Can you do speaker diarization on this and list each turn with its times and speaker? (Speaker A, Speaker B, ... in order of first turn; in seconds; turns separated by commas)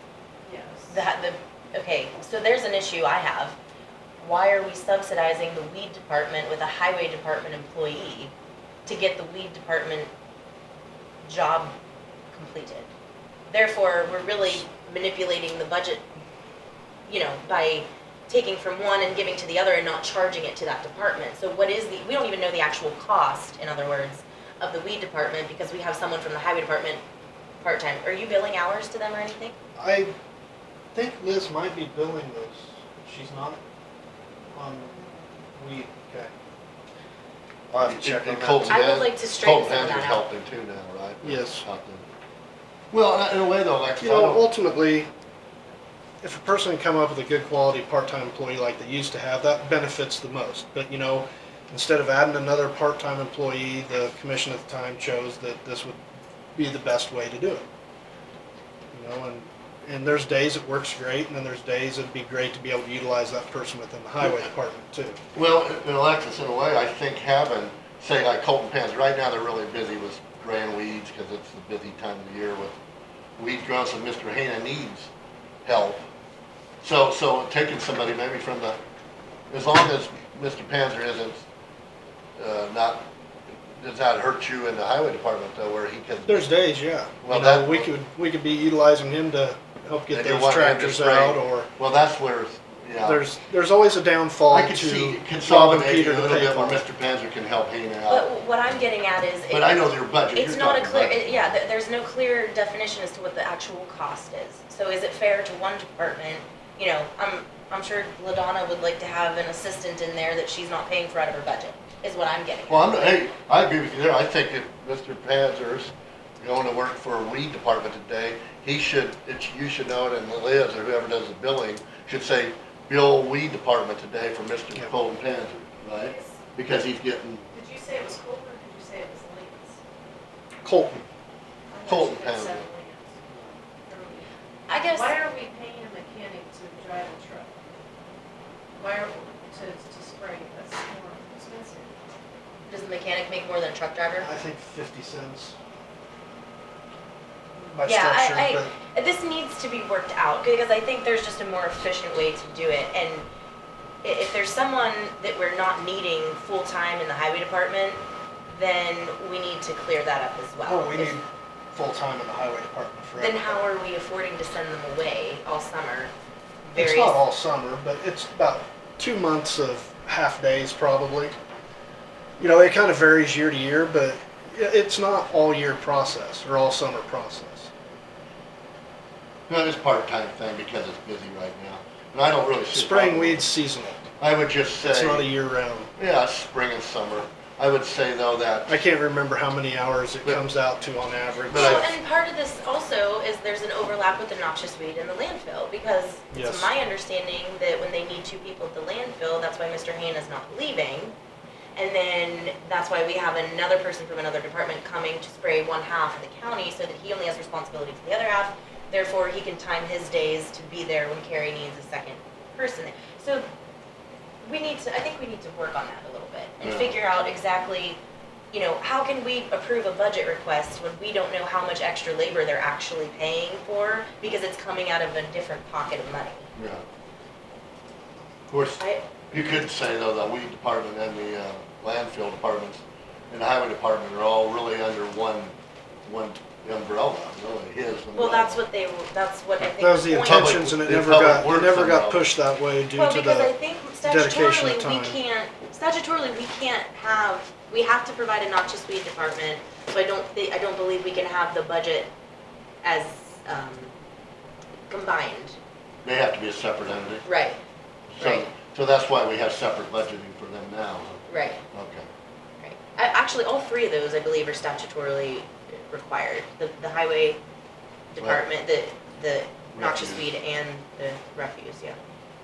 Speaker A: 0.4-1.0, Speaker B: 0.9-3.5, Speaker B: 4.2-8.3, Speaker B: 8.8-10.1, Speaker B: 11.2-11.7, Speaker B: 12.3-12.9, Speaker B: 13.5-16.0, Speaker B: 17.1-27.0, Speaker B: 27.6-29.5, Speaker C: 29.8-30.1, Speaker C: 30.9-33.6, Speaker C: 34.5-35.0, Speaker C: 35.5-36.3, Speaker C: 37.7-38.8, Speaker D: 37.8-42.0, Speaker B: 38.7-40.2, Speaker C: 41.2-41.6, Speaker D: 42.9-44.4, Speaker C: 44.0-45.1, Speaker C: 46.2-56.0, Speaker C: 56.5-57.6, Speaker C: 58.9-65.2, Speaker D: 65.3-72.8, Speaker D: 73.4-75.1, Speaker D: 75.6-76.0, Speaker D: 76.8-78.8, Speaker D: 79.5-81.4, Speaker D: 82.4-83.0, Speaker D: 83.8-86.5, Speaker C: 86.2-91.7, Speaker D: 87.2-87.9, Speaker D: 90.1-93.2, Speaker C: 93.0-96.8, Speaker D: 94.5-98.3, Speaker B: 98.1-113.1, Speaker D: 99.5-101.3, Speaker D: 112.7-127.5, Speaker A: 126.0-126.4, Speaker A: 127.5-129.8, Speaker C: 130.6-131.0, Speaker A: 131.7-133.2, Speaker D: 131.8-132.6, Speaker A: 133.8-137.6, Speaker B: 134.7-135.2, Speaker A: 138.8-141.9, Speaker B: 142.7-144.3, Speaker C: 144.2-145.5, Speaker C: 147.6-148.7, Speaker B: 147.8-153.2, Speaker B: 154.0-161.2, Speaker C: 160.6-163.6, Speaker B: 163.2-166.1, Speaker B: 166.7-167.2, Speaker C: 166.7-171.3, Speaker C: 172.4-177.7, Speaker D: 179.5-183.4, Speaker C: 182.7-184.0, Speaker D: 184.2-185.3, Speaker C: 184.8-185.9, Speaker D: 186.0-188.7, Speaker C: 188.7-191.9, Speaker D: 191.5-191.9, Speaker B: 191.5-201.1, Speaker C: 196.3-196.7, Speaker B: 201.8-213.4, Speaker B: 214.4-218.0, Speaker D: 216.6-217.0, Speaker B: 218.5-226.4, Speaker D: 226.6-226.8, Speaker D: 228.5-235.5, Speaker B: 228.8-229.0, Speaker D: 236.0-238.6, Speaker B: 238.1-240.6, Speaker C: 239.8-243.5, Speaker D: 240.2-242.3, Speaker B: 242.9-252.1, Speaker C: 244.0-245.2, Speaker B: 252.8-253.9, Speaker B: 254.9-255.6, Speaker D: 256.0-257.2, Speaker B: 257.2-257.6, Speaker D: 258.1-261.2, Speaker B: 258.2-258.5, Speaker B: 261.3-261.6, Speaker D: 261.7-262.1, Speaker B: 262.6-267.4, Speaker B: 268.1-271.9, Speaker D: 269.7-270.3